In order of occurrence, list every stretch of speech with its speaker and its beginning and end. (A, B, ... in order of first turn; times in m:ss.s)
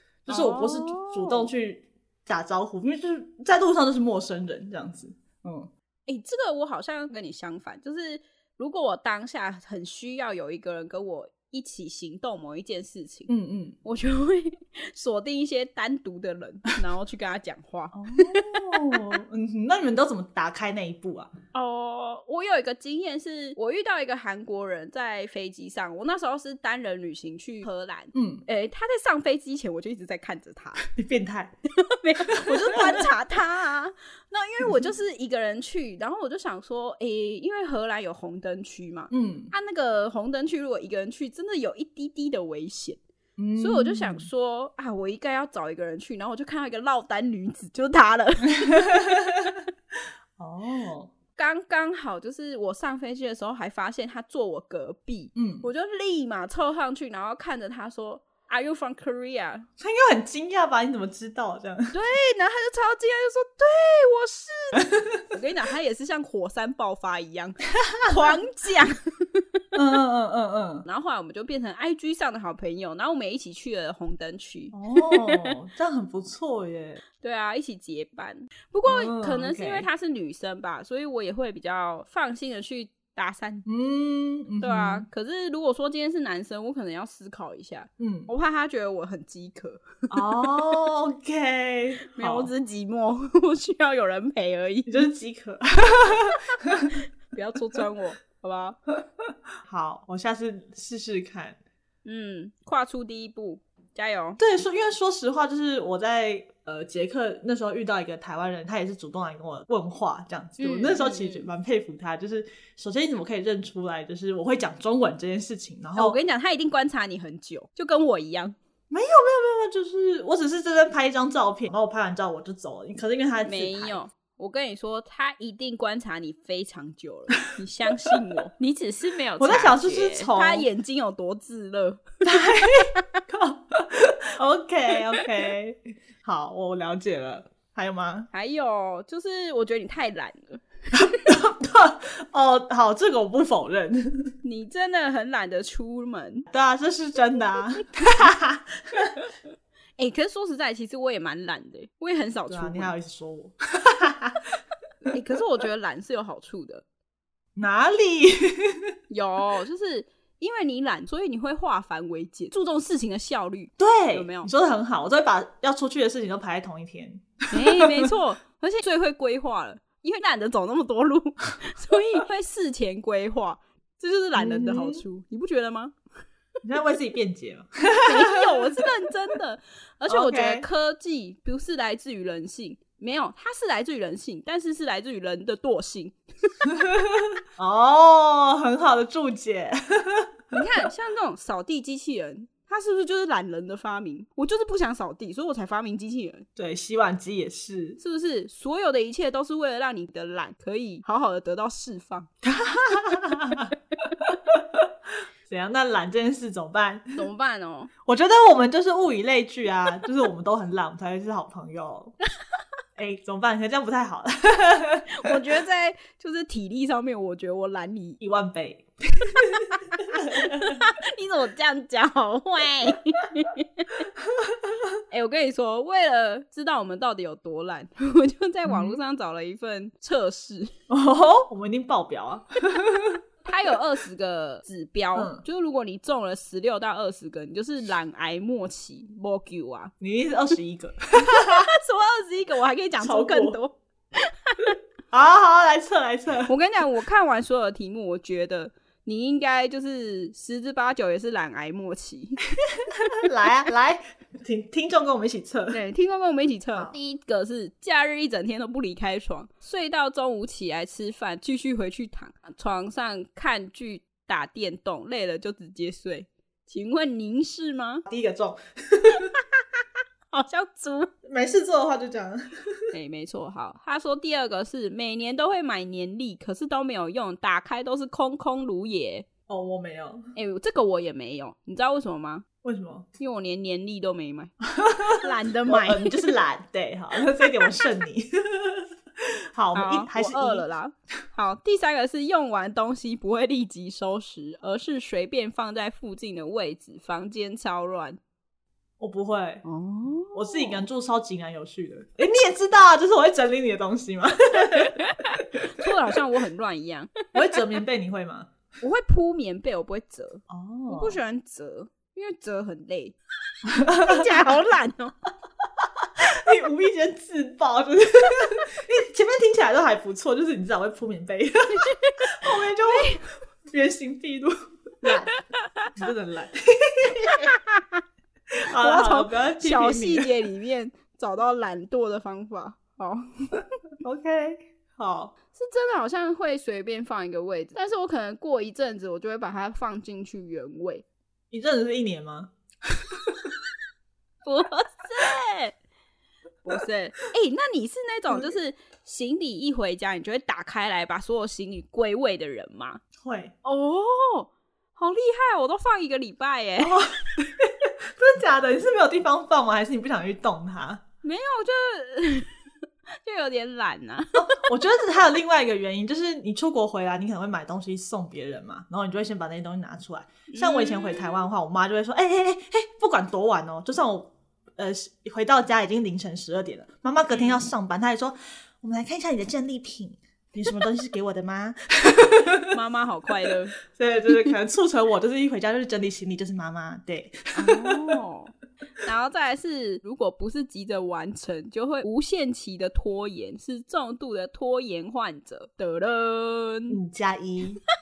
0:00.3-0:05.7 A
0:00.3-0:01.5 B
0:06.1-0:13.3 B
0:13.3-0:13.8 A
0:13.8-0:19.0 B
0:17.9-0:21.3 A
0:21.5-0:30.9 B
0:28.1-0:28.4 A
0:30.8-0:31.5 A
0:31.7-0:43.0 B
0:32.3-0:33.1 A
0:34.6-0:34.9 A
0:39.1-0:39.5 A
0:43.4-0:44.3 A
0:43.6-0:49.0 B
0:48.6-0:49.6 A
0:50.4-0:51.1 A
0:51.4-0:59.7 B
0:55.4-0:55.7 A
0:59.8-1:01.9 A
1:01.9-1:09.4 B
1:04.8-1:05.2 A
1:08.0-1:08.4 A
1:09.8-1:10.9 A
1:10.9-1:15.5 B
1:14.7-1:17.0 A
1:17.2-1:23.7 B
1:18.9-1:19.9 A
1:23.7-1:25.1 A
1:24.6-1:30.5 B
1:28.0-1:28.3 A
1:30.1-1:32.5 A
1:32.1-1:35.0 B
1:34.9-1:37.0 A
1:36.8-1:38.8 B
1:39.6-1:41.6 A
1:42.0-1:44.4 B
1:44.4-1:56.2 A
1:50.6-1:51.5 B
1:56.0-1:58.6 B
1:58.9-2:04.0 A
2:03.4-2:13.0 B
2:09.4-2:10.7 A
2:12.2-2:18.3 A
2:18.3-2:20.6 B
2:20.9-2:24.3 A
2:24.4-2:26.5 B
2:26.5-2:29.2 A
2:30.0-2:32.9 B
2:32.5-2:34.4 A
2:35.1-2:36.8 B
2:37.6-2:38.9 A
2:39.1-2:44.5 B
2:43.8-2:48.1 A
2:47.5-2:56.0 B
2:54.4-2:55.0 A
2:56.6-2:58.7 A
2:58.0-3:06.5 B
3:00.1-3:00.7 A
3:06.7-3:10.3 A
3:10.5-3:16.5 B
3:16.6-3:18.0 A
3:18.0-3:22.3 B
3:22.4-3:24.9 A
3:25.5-3:27.2 A
3:27.2-3:27.9 B
3:28.1-3:32.2 A
3:33.0-3:35.4 A
3:35.1-3:38.2 B
3:38.2-3:40.8 A
3:39.9-3:44.0 B
3:45.1-3:50.7 B
3:48.7-3:49.0 A
3:50.9-3:53.2 A
3:53.4-3:59.9 B
3:55.2-3:55.4 A
4:00.0-4:01.7 A
4:01.2-4:04.7 B
4:03.0-4:03.6 A
4:05.1-4:06.5 A
4:06.5-4:12.4 B
4:13.0-4:15.8 A
4:15.7-4:28.0 B
4:28.1-4:29.3 A
4:30.3-4:31.1 B
4:31.2-4:32.8 A
4:32.9-4:39.3 B
4:39.5-4:40.2 A
4:40.4-4:42.5 B
4:42.6-4:43.1 A
4:43.2-4:44.5 B
4:44.7-4:48.9 A
4:45.0-4:46.3 B
4:49.5-4:50.6 A
4:49.7-4:58.2 B
4:59.0-4:59.6 A
4:59.6-5:00.8 B
5:00.3-5:05.1 A
5:04.7-5:07.3 B
5:05.6-5:05.9 A
5:07.3-5:08.5 A
5:08.8-5:13.2 B
5:10.5-5:11.2 A
5:13.7-5:14.4 A
5:13.8-5:15.2 B
5:16.0-5:25.4 A
5:21.9-5:22.3 B
5:22.9-5:23.2 B
5:25.0-5:25.9 B
5:25.9-5:27.5 A
5:27.2-5:28.0 B
5:28.6-5:30.3 A
5:28.8-5:33.7 B
5:34.0-5:35.3 A
5:35.5-5:41.0 B
5:41.5-5:42.5 A
5:44.4-5:45.8 B
5:46.6-5:53.0 B
5:53.2-5:53.5 A
5:53.6-5:57.1 B
5:56.8-6:01.0 A
6:01.2-6:02.6 B
6:03.2-6:04.6 B
6:04.4-6:22.7 A
6:10.5-6:11.4 B
6:17.3-6:17.6 B
6:22.7-6:23.8 B
6:23.8-6:28.2 A
6:27.5-6:37.0 B
6:36.9-6:37.8 A